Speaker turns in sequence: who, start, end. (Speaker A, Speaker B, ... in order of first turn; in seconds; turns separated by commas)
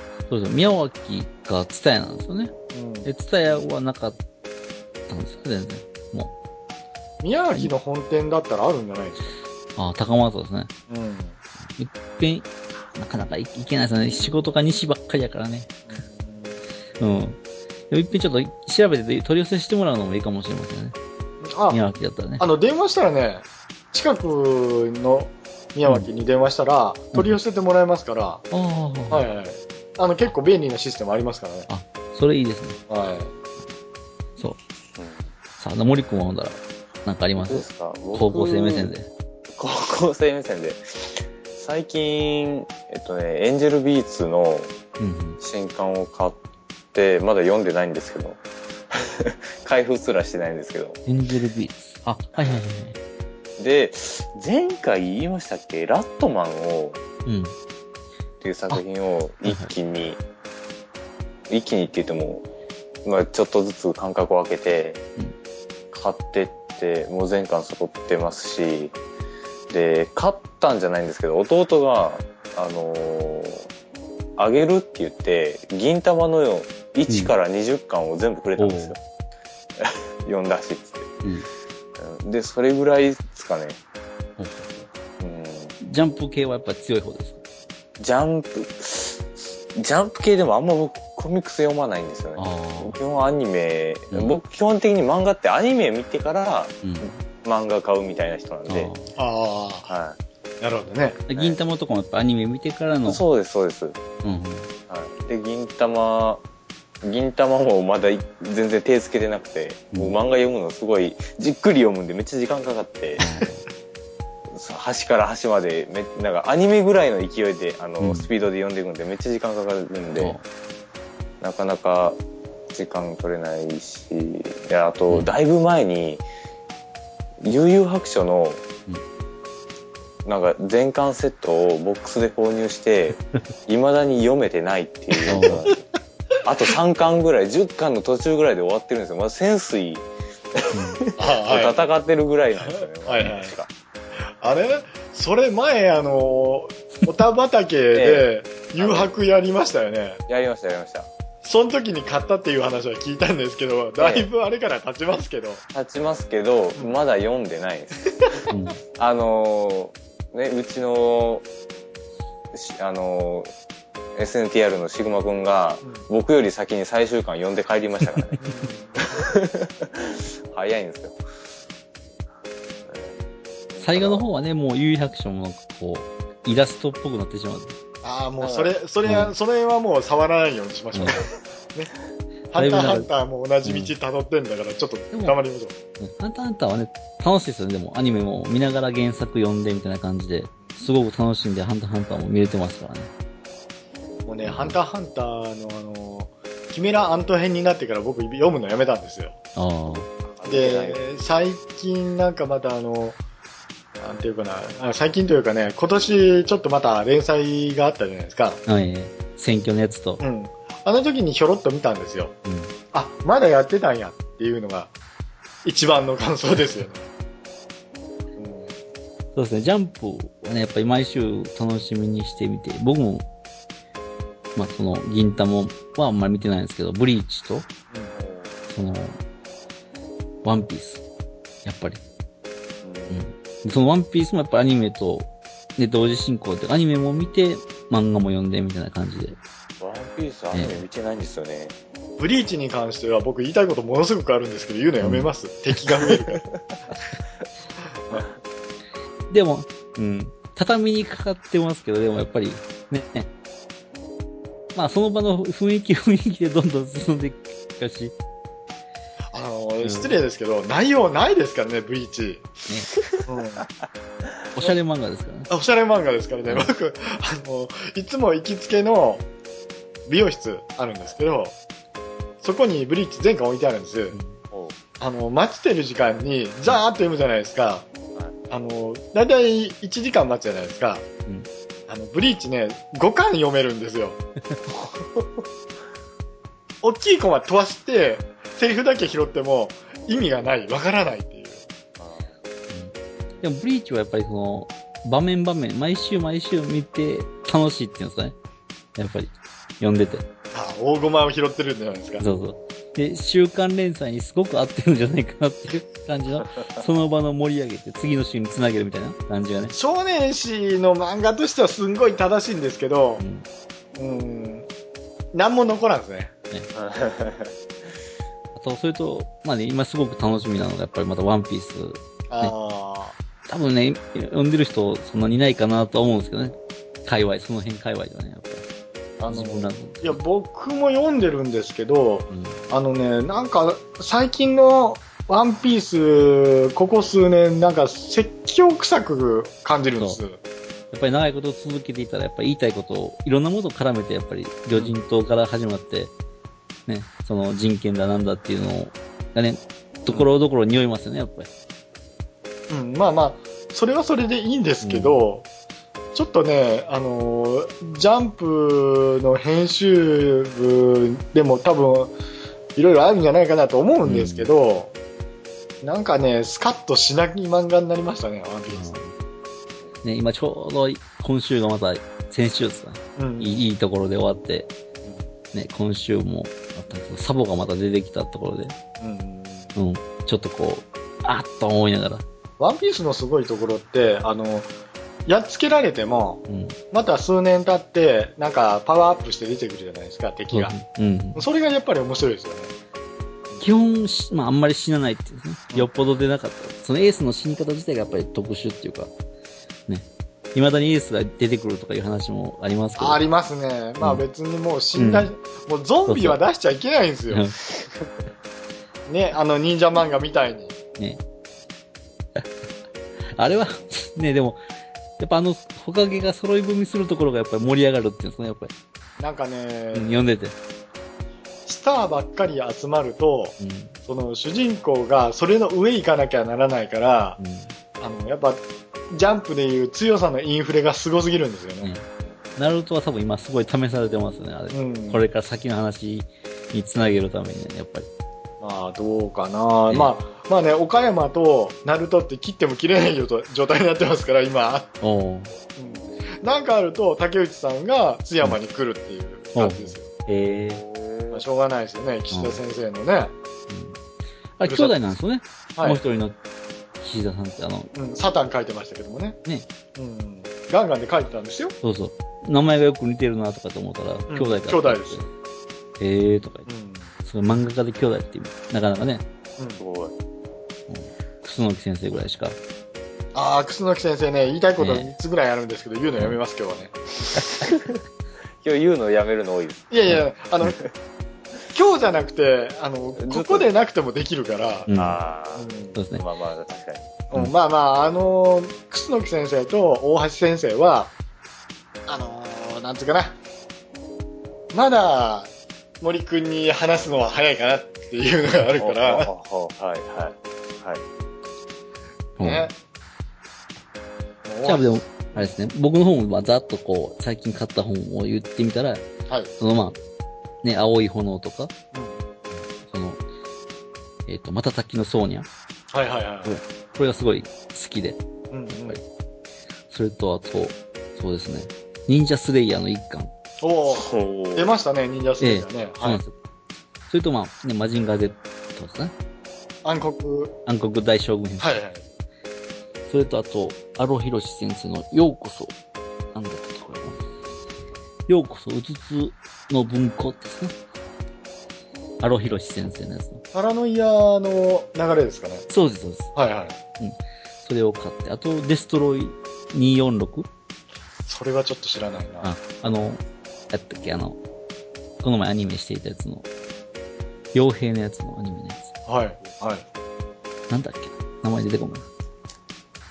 Speaker A: 0.3-4.2, Speaker B: 2.7-3.1, Speaker A: 5.1-6.3, Speaker B: 7.2-9.4, Speaker A: 9.8-10.7, Speaker B: 10.9-11.4, Speaker A: 11.8-15.8, Speaker B: 15.9-16.6, Speaker A: 17.0-17.4, Speaker A: 17.9-20.9, Speaker B: 21.4-21.8, Speaker A: 21.7-22.4, Speaker B: 22.4-28.4, Speaker A: 27.1-27.4, Speaker A: 28.5-29.3, Speaker B: 29.1-31.7, Speaker A: 31.7-32.8, Speaker B: 32.9-33.3, Speaker C: 35.0-35.3, Speaker A: 35.6-39.1, Speaker C: 37.4-38.9, Speaker C: 39.6-44.7, Speaker A: 45.0-45.4, Speaker C: 45.4-46.4, Speaker C: 46.9-48.4, Speaker C: 48.9-51.0, Speaker A: 51.1-53.0, Speaker C: 53.6-57.0, Speaker A: 57.2-57.5, Speaker C: 58.4-60.2, Speaker A: 59.5-59.7, Speaker C: 61.5-62.4, Speaker C: 63.0-65.0, Speaker C: 65.9-69.0, Speaker C: 69.7-73.7, Speaker C: 74.4-79.0, Speaker A: 77.1-77.3, Speaker A: 78.6-79.0, Speaker C: 79.8-81.2, Speaker A: 81.2-81.5, Speaker C: 82.0-83.8, Speaker A: 84.4-84.9, Speaker C: 85.2-85.8, Speaker A: 85.8-87.4, Speaker C: 88.0-96.9, Speaker A: 92.4-93.0, Speaker A: 96.8-97.2, Speaker C: 97.4-98.9, Speaker A: 98.7-99.1, Speaker B: 99.2-99.9, Speaker C: 99.9-100.2, Speaker B: 100.6-101.2, Speaker A: 101.3-103.2, Speaker C: 103.0-104.0, Speaker A: 104.2-104.7, Speaker C: 104.9-106.4, Speaker C: 107.0-113.2, Speaker A: 113.2-113.7, Speaker C: 114.5-120.4, Speaker A: 118.0-118.3, Speaker A: 120.2-120.4, Speaker C: 121.4-122.2, Speaker C: 122.7-126.2, Speaker C: 127.4-128.6, Speaker C: 130.2-135.8, Speaker A: 135.3-135.7, Speaker C: 136.4-143.7, Speaker A: 140.7-141.0, Speaker B: 141.2-141.9, Speaker B: 142.7-143.6, Speaker B: 144.4-150.2, Speaker C: 147.9-149.1, Speaker C: 150.3-151.1, Speaker B: 151.4-155.6, Speaker C: 154.0-154.3, Speaker C: 155.7-158.4, Speaker A: 158.5-158.8, Speaker C: 158.9-161.4, Speaker C: 162.5-163.5, Speaker C: 164.2-168.5, Speaker B: 168.4-169.2, Speaker C: 169.0-171.2, Speaker C: 172.9-173.2, Speaker C: 173.7-174.3, Speaker A: 173.8-177.8, Speaker B: 178.0-181.9, Speaker C: 178.4-178.7, Speaker A: 179.0-179.3, Speaker B: 182.5-185.8, Speaker A: 182.5-183.1, Speaker A: 183.6-183.9, Speaker A: 185.1-185.4, Speaker A: 186.0-193.1, Speaker B: 194.3-199.3, Speaker A: 194.4-194.8, Speaker A: 199.6-200.1, Speaker C: 200.2-201.0, Speaker B: 200.4-203.2, Speaker B: 204.0-208.6, Speaker A: 208.7-210.2, Speaker B: 210.2-212.3, Speaker A: 212.4-212.7, Speaker B: 212.9-214.9, Speaker B: 215.6-217.1, Speaker B: 218.4-218.8, Speaker A: 219.4-223.3, Speaker A: 224.6-227.7, Speaker C: 228.2-228.7, Speaker A: 228.7-229.2, Speaker A: 230.4-231.0, Speaker A: 231.7-232.0, Speaker C: 232.8-233.2, Speaker A: 233.1-239.4, Speaker C: 239.8-241.8, Speaker A: 240.5-240.8, Speaker B: 242.2-246.4, Speaker A: 245.0-245.3, Speaker A: 249.3-253.3, Speaker A: 254.8-258.1, Speaker B: 259.3-262.5, Speaker A: 259.8-260.2, Speaker C: 263.0-263.2, Speaker B: 263.3-263.7, Speaker A: 264.6-265.5, Speaker B: 265.5-269.3, Speaker B: 270.1-271.5, Speaker B: 272.4-274.2, Speaker A: 274.1-274.4, Speaker B: 275.0-277.9, Speaker B: 278.5-281.1, Speaker B: 281.9-284.2, Speaker C: 284.7-285.4, Speaker B: 286.8-291.6, Speaker C: 292.0-292.4, Speaker A: 292.7-298.4, Speaker A: 299.0-300.2, Speaker B: 300.5-302.2, Speaker A: 302.2-309.8, Speaker B: 309.7-313.2, Speaker A: 313.2-313.4, Speaker B: 314.0-314.7, Speaker B: 315.3-316.3, Speaker C: 316.7-317.5, Speaker A: 318.6-322.5, Speaker B: 322.3-323.2, Speaker A: 323.5-328.6, Speaker B: 329.2-340.4, Speaker A: 329.3-330.2, Speaker A: 332.3-332.6, Speaker A: 340.9-346.1, Speaker A: 346.9-351.5, Speaker B: 352.7-355.5, Speaker A: 354.8-355.2, Speaker B: 356.1-362.1, Speaker B: 362.8-364.9, Speaker A: 364.1-364.5, Speaker B: 365.8-368.9, Speaker A: 368.7-369.1, Speaker A: 370.0-374.7, Speaker B: 373.2-373.6, Speaker A: 375.5-378.8, Speaker B: 379.0-379.7, Speaker A: 379.8-382.2, Speaker B: 382.6-384.7, Speaker B: 385.3-390.8, Speaker A: 386.5-386.8, Speaker A: 390.5-391.4, Speaker B: 391.4-392.7, Speaker A: 393.6-399.1, Speaker A: 399.9-403.2, Speaker B: 403.0-407.5, Speaker A: 404.9-405.3, Speaker A: 406.1-406.4, Speaker A: 407.3-407.6, Speaker B: 409.1-410.8, Speaker A: 413.3-414.6, Speaker A: 415.2-418.7, Speaker B: 419.2-420.1, Speaker A: 419.9-420.6, Speaker B: 421.7-427.4, Speaker A: 423.6-423.9, Speaker A: 427.4-427.7, Speaker B: 428.0-431.9, Speaker A: 431.8-438.1, Speaker C: 432.2-432.6, Speaker B: 434.7-435.2, Speaker B: 438.6-444.9, Speaker A: 445.0-445.5, Speaker B: 445.8-450.1, Speaker A: 449.6-450.8, Speaker C: 450.7-451.4, Speaker B: 451.3-453.3, Speaker A: 452.3-452.6, Speaker A: 453.7-454.0, Speaker A: 454.6-456.4, Speaker B: 454.6-455.0, Speaker B: 455.8-456.0, Speaker A: 457.0-457.9, Speaker B: 457.9-459.4, Speaker B: 459.9-461.8, Speaker A: 461.8-465.3, Speaker B: 464.3-465.3, Speaker A: 466.0-466.7, Speaker B: 466.7-467.1, Speaker A: 467.2-469.2, Speaker C: 469.8-470.1, Speaker A: 470.9-472.6, Speaker B: 473.4-477.0, Speaker A: 474.8-475.1, Speaker C: 478.6-479.9, Speaker B: 479.9-480.8, Speaker B: 481.7-484.9, Speaker C: 483.2-483.7, Speaker A: 484.9-485.2, Speaker C: 484.9-487.1, Speaker B: 485.6-486.0, Speaker A: 485.9-486.2, Speaker B: 487.3-491.1, Speaker B: 492.1-493.4, Speaker B: 494.7-499.3, Speaker C: 498.8-501.0, Speaker A: 502.4-502.7, Speaker B: 502.4-502.8, Speaker B: 504.4-505.5, Speaker A: 504.6-509.1, Speaker A: 509.6-510.0, Speaker A: 510.6-511.7, Speaker B: 511.9-512.2, Speaker A: 512.5-513.2, Speaker A: 514.3-515.5, Speaker B: 515.9-516.6, Speaker A: 516.4-519.0, Speaker B: 518.5-519.0, Speaker A: 519.9-523.3, Speaker B: 523.6-526.2, Speaker C: 523.9-524.7, Speaker A: 525.4-526.3, Speaker A: 527.1-529.1, Speaker B: 529.8-530.5, Speaker A: 530.7-531.8, Speaker B: 531.6-532.0, Speaker A: 533.1-535.7, Speaker A: 536.3-537.2, Speaker A: 538.3-540.8, Speaker A: 542.2-543.4, Speaker B: 543.5-545.7, Speaker A: 545.7-546.3, Speaker B: 546.4-546.8, Speaker A: 547.0-550.5, Speaker B: 551.3-552.5, Speaker A: 552.4-554.4, Speaker A: 555.2-556.5, Speaker A: 557.5-558.9, Speaker B: 559.1-559.9, Speaker A: 560.7-562.1